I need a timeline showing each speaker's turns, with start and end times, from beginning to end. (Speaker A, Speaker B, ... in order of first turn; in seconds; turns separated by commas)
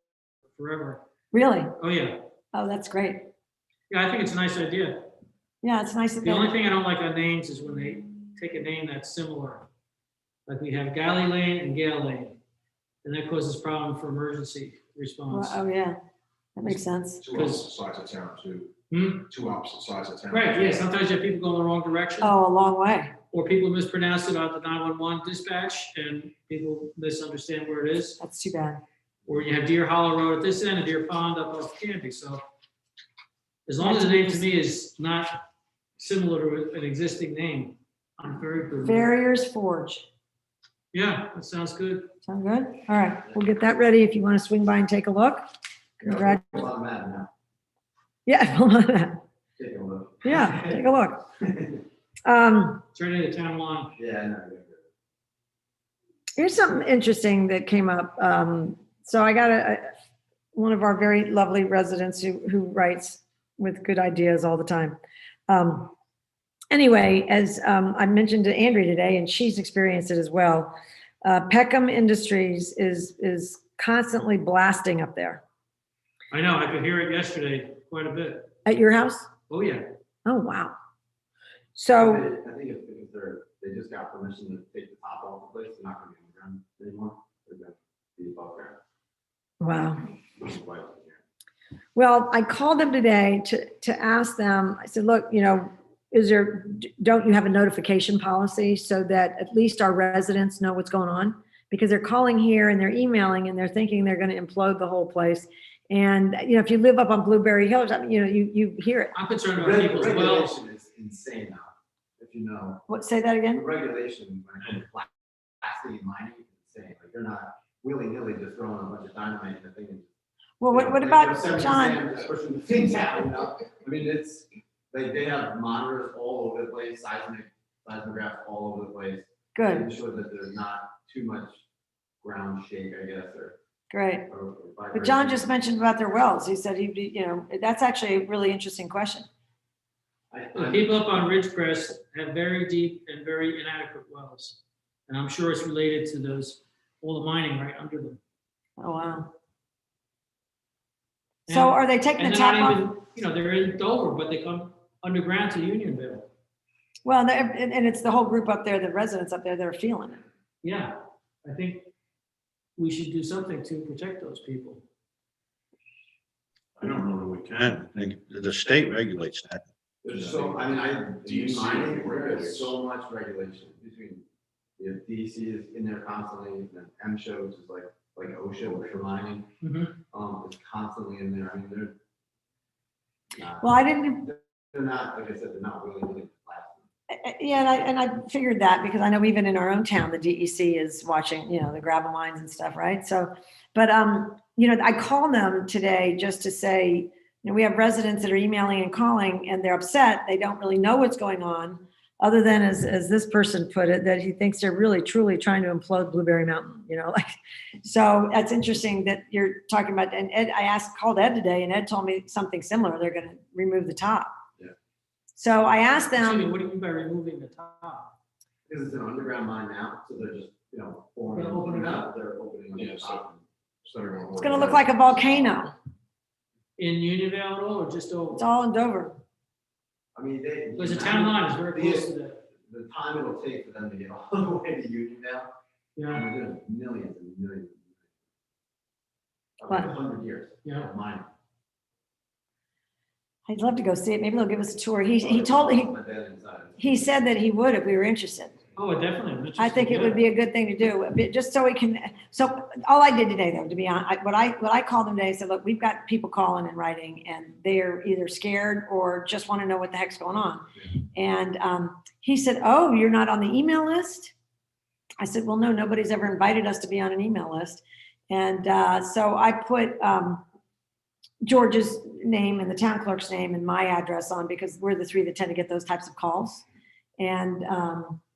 Speaker A: 0.5-1.0, Speaker B: 1.3-1.8, Speaker A: 1.8-2.2, Speaker B: 2.5-3.3, Speaker A: 3.9-5.1, Speaker B: 5.6-6.5, Speaker A: 6.2-9.7, Speaker A: 10.5-12.4, Speaker A: 13.0-15.6, Speaker B: 15.3-16.0, Speaker B: 16.6-17.2, Speaker C: 17.2-18.7, Speaker A: 17.3-17.7, Speaker A: 18.9-19.3, Speaker C: 19.3-20.9, Speaker A: 20.3-22.3, Speaker B: 22.2-23.1, Speaker A: 23.3-28.2, Speaker B: 28.2-28.8, Speaker A: 29.3-32.4, Speaker A: 33.7-35.4, Speaker B: 33.8-34.5, Speaker A: 36.0-39.1, Speaker B: 38.8-40.0, Speaker A: 40.9-42.1, Speaker B: 42.2-45.5, Speaker B: 46.0-46.7, Speaker D: 46.0-47.3, Speaker B: 48.3-49.2, Speaker D: 49.6-50.8, Speaker B: 50.2-51.2, Speaker D: 51.4-51.8, Speaker B: 52.2-52.8, Speaker A: 52.9-53.9, Speaker D: 54.0-54.8, Speaker B: 56.4-59.9, Speaker B: 60.5-65.0, Speaker B: 65.5-65.9, Speaker B: 66.7-75.4, Speaker A: 76.3-78.5, Speaker B: 78.7-79.3, Speaker A: 79.5-79.9, Speaker B: 80.2-80.7, Speaker B: 81.7-82.3, Speaker D: 82.0-88.8, Speaker B: 89.6-90.0, Speaker D: 90.4-91.2, Speaker B: 92.0-109.1, Speaker A: 109.1-110.5, Speaker D: 109.5-112.8, Speaker B: 112.9-113.6, Speaker D: 113.5-120.1, Speaker B: 120.6-122.0, Speaker D: 120.7-131.6, Speaker B: 129.5-129.8, Speaker D: 132.2-133.5, Speaker B: 133.9-134.3, Speaker D: 134.3-135.4, Speaker B: 134.9-139.3, Speaker D: 140.3-141.0, Speaker A: 140.5-148.2, Speaker B: 148.8-149.3, Speaker A: 151.5-156.3, Speaker B: 151.5-152.9, Speaker B: 157.0-160.2, Speaker A: 160.6-161.9, Speaker A: 162.8-164.8, Speaker C: 166.8-168.1, Speaker E: 167.0-169.6, Speaker D: 170.0-174.2, Speaker C: 170.1-172.8, Speaker D: 174.8-179.5, Speaker A: 179.6-179.9, Speaker D: 180.1-181.9, Speaker D: 183.4-183.7, Speaker B: 183.6-184.3, Speaker D: 184.2-186.8, Speaker B: 187.1-214.3, Speaker B: 215.3-216.5, Speaker A: 216.1-218.1, Speaker D: 218.7-224.9, Speaker A: 221.3-222.1, Speaker C: 222.7-223.2, Speaker B: 224.4-225.7, Speaker A: 226.8-228.4, Speaker B: 228.3-229.2, Speaker D: 230.1-232.1, Speaker A: 230.8-232.4, Speaker D: 232.6-235.5, Speaker A: 236.0-236.2, Speaker D: 236.1-238.0, Speaker D: 239.6-241.3, Speaker A: 240.6-240.9, Speaker B: 243.5-245.9, Speaker D: 245.2-247.0, Speaker B: 246.8-248.5, Speaker A: 248.8-250.2, Speaker B: 249.6-264.3, Speaker B: 265.2-270.4, Speaker B: 271.4-276.6, Speaker B: 277.2-278.2